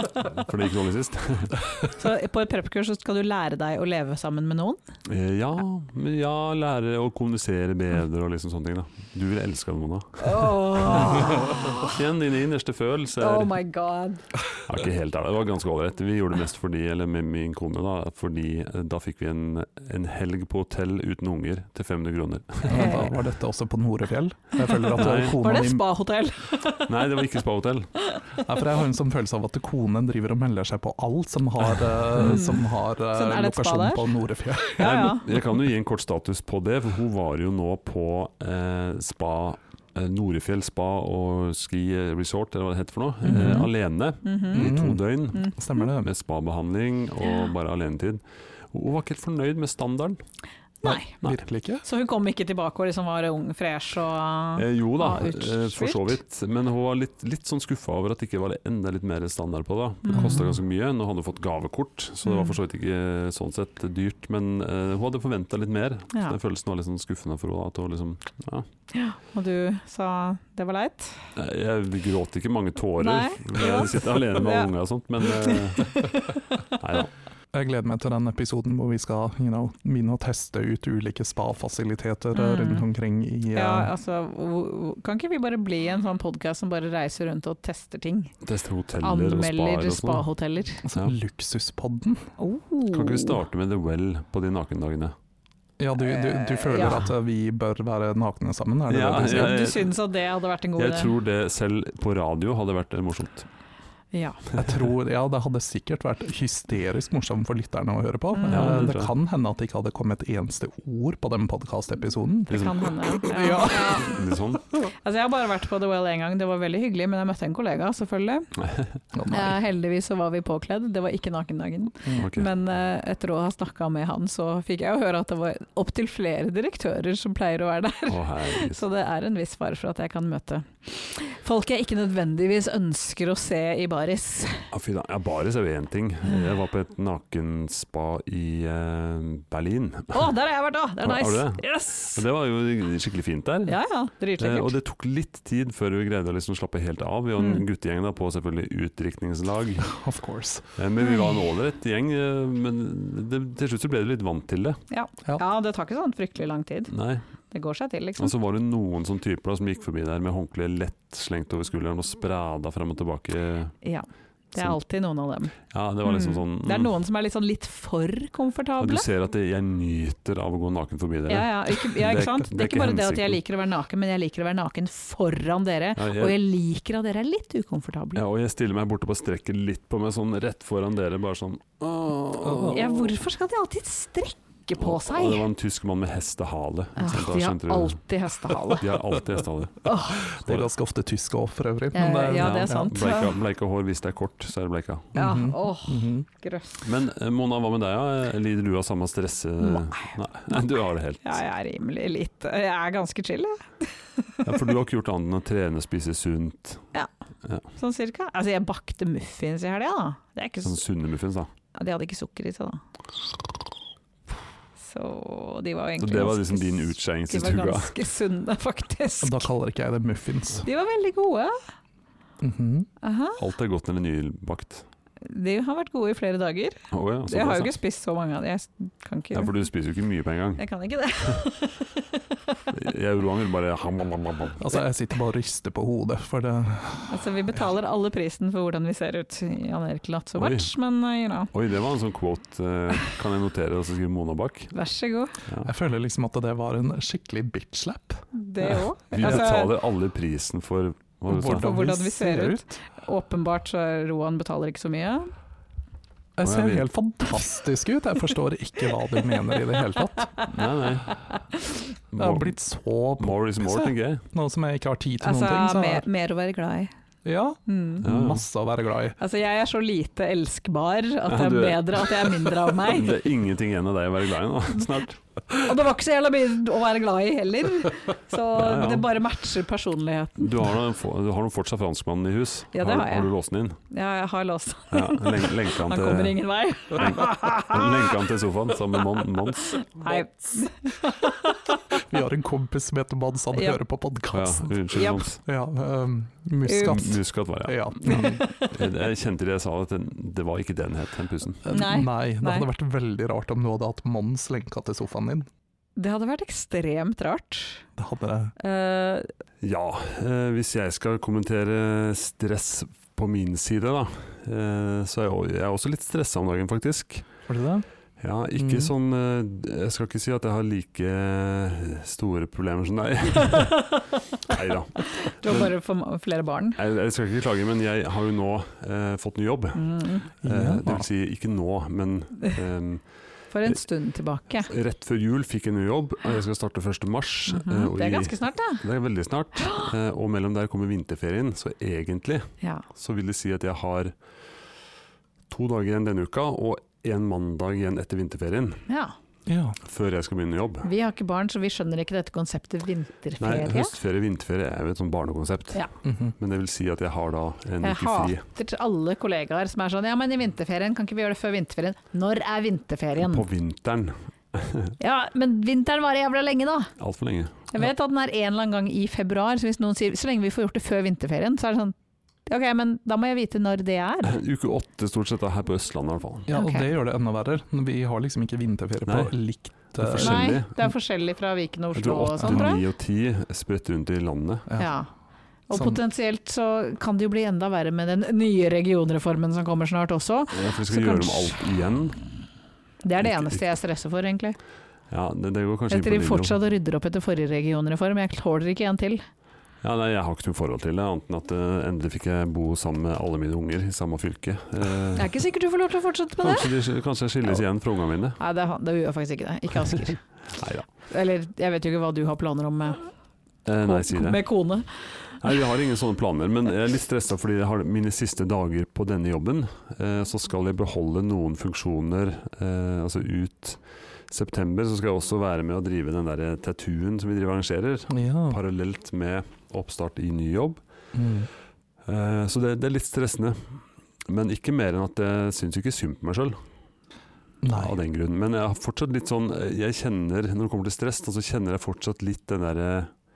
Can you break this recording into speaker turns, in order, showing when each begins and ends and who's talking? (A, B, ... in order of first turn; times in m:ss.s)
0:00.2-0:01.6 A
0:01.9-0:04.8 B
0:05.1-0:13.6 A
0:10.2-0:12.0 B
0:13.2-0:14.2 B
0:14.6-0:23.1 A
0:22.7-0:25.8 C
0:22.7-0:23.1 B
0:24.6-0:27.0 B
0:25.0-0:25.4 A
0:26.8-0:27.9 A
0:28.0-0:28.4 B
0:28.4-0:35.0 C
0:32.2-0:34.1 B
0:34.7-0:35.2 B
0:34.8-0:50.2 A
0:43.2-0:43.7 C
0:43.3-0:43.7 B
0:44.2-0:44.7 B
0:44.5-0:46.1 C
0:50.8-0:51.2 B
0:50.8-0:51.8 C
0:51.8-0:56.2 B
0:54.6-1:08.7 A
1:00.0-1:00.4 B
1:00.1-1:00.6 C
1:02.2-1:02.6 B
1:08.9-1:11.3 B
1:11.4-1:16.2 A
1:13.0-1:14.7 B
1:15.2-1:16.7 B
1:16.8-1:17.1 A
1:17.5-1:23.9 C
1:22.3-1:22.9 B
1:23.5-1:28.3 B
1:28.4-1:30.3 A
1:29.0-1:30.8 B
1:30.8-1:32.3 C
1:32.4-1:33.4 B
1:32.9-1:35.2 A
1:35.8-1:39.6 C
1:36.0-1:37.1 B
1:38.9-1:39.9 A
1:39.2-1:41.1 B
1:40.8-1:43.5 A
1:44.1-1:44.4 B
1:44.6-1:54.1 C
1:48.3-1:48.8 B
1:48.5-1:49.1 A
1:52.5-1:58.5 B
1:52.5-1:54.6 A
1:58.6-1:58.9 A
1:59.1-1:59.6 C
1:59.3-2:14.7 B
2:02.2-2:02.5 A
2:08.1-2:08.8 A
2:14.7-2:20.3 A
2:20.1-2:22.2 B
2:21.0-2:23.8 A
2:23.7-2:24.7 B
2:24.4-2:29.9 A
2:27.4-2:27.6 B
2:29.8-2:30.6 C
2:30.8-2:34.8 A
2:31.0-2:31.4 B
2:34.9-2:36.9 B
2:36.9-2:37.2 A
2:37.5-2:38.3 B
2:38.2-2:43.8 A
2:43.8-2:49.1 B
2:45.7-2:46.9 A
2:48.8-2:53.4 A
2:51.3-2:58.2 B
2:56.0-2:56.4 A
2:58.2-3:03.1 A
3:02.4-3:02.9 C
3:02.6-3:05.5 B
3:04.8-3:08.0 A
3:07.0-3:08.9 B
3:08.7-3:10.7 A
3:09.8-3:10.3 B
3:10.1-3:12.9 C
3:11.9-3:13.3 B
3:12.4-3:15.2 A
3:15.2-3:16.3 C
3:15.2-3:16.8 B
3:16.8-3:21.4 A
3:19.6-3:20.7 B
3:21.2-3:24.5 B
3:24.4-3:26.9 A
3:27.8-3:30.8 B
3:30.6-3:31.5 A
3:31.7-3:32.8 B
3:34.8-3:39.5 B
3:36.0-3:38.0 A
3:39.2-3:40.7 C
3:40.6-3:41.6 B
3:42.4-3:42.9 C
3:43.0-3:43.4 B
3:43.4-3:44.8 A
3:45.2-3:49.5 B
3:46.9-3:47.8 A
3:49.3-3:50.7 A
3:50.6-3:52.6 B
3:52.7-3:54.7 A
3:54.6-3:57.2 C
3:57.1-4:01.5 B
4:00.4-4:00.7 A
4:01.5-4:04.7 A
4:04.7-4:05.4 B
4:05.6-4:08.3 C
4:08.3-4:09.7 B
4:08.7-4:11.7 A
4:11.3-4:12.8 C
4:11.5-4:15.3 B
4:16.4-4:20.4 C
4:16.4-4:16.9 A
4:20.2-4:20.5 B
4:20.5-4:21.1 A
4:21.0-4:21.9 B
4:22.1-4:22.5 A
4:22.2-4:26.0 C
4:23.2-4:24.2 A
4:25.2-4:26.9 B
4:27.2-4:29.2 C
4:27.7-4:28.0 B
4:28.0-4:28.4 A
4:29.2-4:33.2 B
4:31.3-4:35.7 A
4:35.6-4:40.6 B
4:38.5-4:39.1 A
4:40.4-4:43.8 A
4:42.7-4:43.3 B
4:43.9-4:48.1 B
4:44.9-4:50.1 A
4:49.8-4:51.8 B
4:51.9-4:54.8 C
4:54.3-4:55.4 A
4:54.9-4:55.3 B
4:55.4-4:58.5 C
4:56.6-4:57.0 B
4:56.8-5:01.6 A
4:58.0-4:58.8 B
5:01.6-5:05.5 C
5:01.7-5:02.7 B
5:06.0-5:07.9 B
5:08.0-5:08.5 C
5:08.6-5:09.3 B
5:09.6-5:17.3 A
5:17.5-5:17.9 C
5:18.2-5:25.7 A
5:18.6-5:18.9 C
5:23.4-5:26.8 B
5:26.8-5:33.8 A
5:29.8-5:30.3 B
5:30.4-5:31.1 C
5:33.5-5:34.7 B
5:34.6-5:44.2 A
5:37.5-5:38.8 B
5:39.6-5:39.9 B
5:45.5-5:48.8 A
5:48.9-5:49.1 B
5:49.5-5:49.8 C
5:49.8-5:50.9 A
5:50.8-5:53.9 B
5:53.4-5:55.9 A
5:56.0-5:56.4 C
5:56.4-5:58.4 A
5:57.8-6:03.4 B
6:03.2-6:05.0 A
6:05.0-6:06.9 B
6:07.0-6:07.6 A
6:07.7-6:12.0 B
6:12.5-6:14.4 B
6:14.2-6:16.5 A
6:16.5-6:20.6 C
6:16.5-6:16.9 B
6:19.1-6:19.3 A
6:19.8-6:20.7 A
6:20.2-6:22.8 B
6:22.0-6:24.7 A
6:22.4-6:22.7 C
6:24.8-6:25.1 B
6:25.7-6:31.6 B
6:25.7-6:26.0 C
6:30.5-6:32.2 A
6:33.0-6:34.6 B
6:33.2-6:33.6 A
6:35.1-6:36.6 A
6:35.9-6:39.2 B
6:39.8-6:45.3 A
6:45.2-6:46.7 B
6:46.4-6:48.4 A
6:48.4-6:50.3 B
6:50.0-6:50.9 A
6:51.0-6:53.1 B
6:53.6-6:54.5 A
6:53.8-6:55.5 B
6:55.4-7:10.8 A
7:08.1-7:08.6 C
7:11.1-7:11.5 C
7:12.1-7:16.6 A
7:17.6-7:18.0 C
7:17.7-7:23.1 A